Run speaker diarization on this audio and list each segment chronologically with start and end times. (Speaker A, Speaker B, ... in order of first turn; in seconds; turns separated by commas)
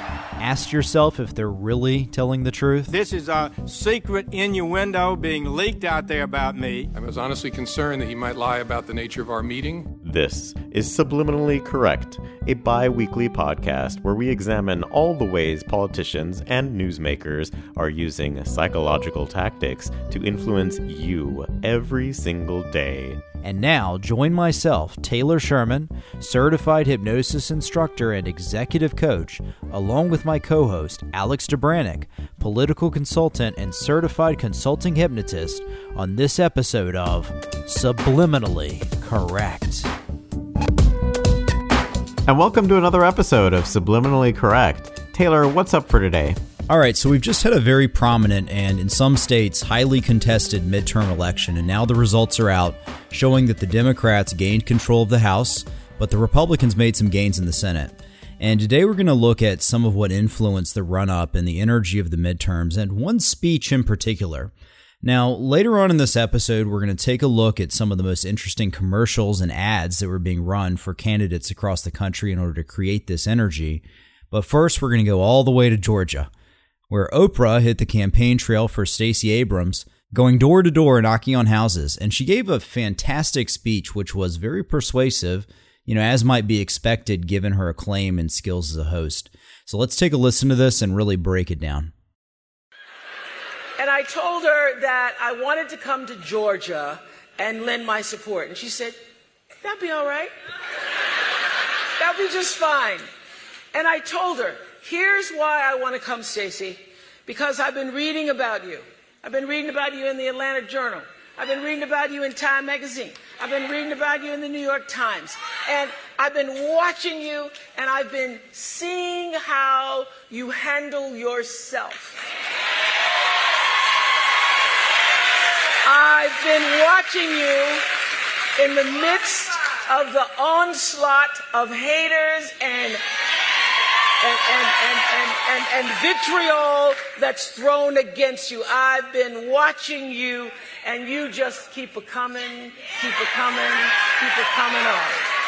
Speaker A: 0.4-2.9, Speaker B: 2.9-6.9, Speaker C: 6.9-9.9, Speaker D: 10.0-23.2, Speaker A: 23.4-39.9, Speaker D: 42.3-46.4, Speaker A: 46.7-64.5, Speaker A: 65.0-76.3, Speaker A: 76.9-91.9, Speaker E: 93.8-99.0, Speaker E: 99.6-100.3, Speaker E: 102.0-103.0, Speaker E: 103.7-122.2, Speaker E: 125.8-127.8, Speaker E: 128.6-133.0, Speaker E: 134.2-145.3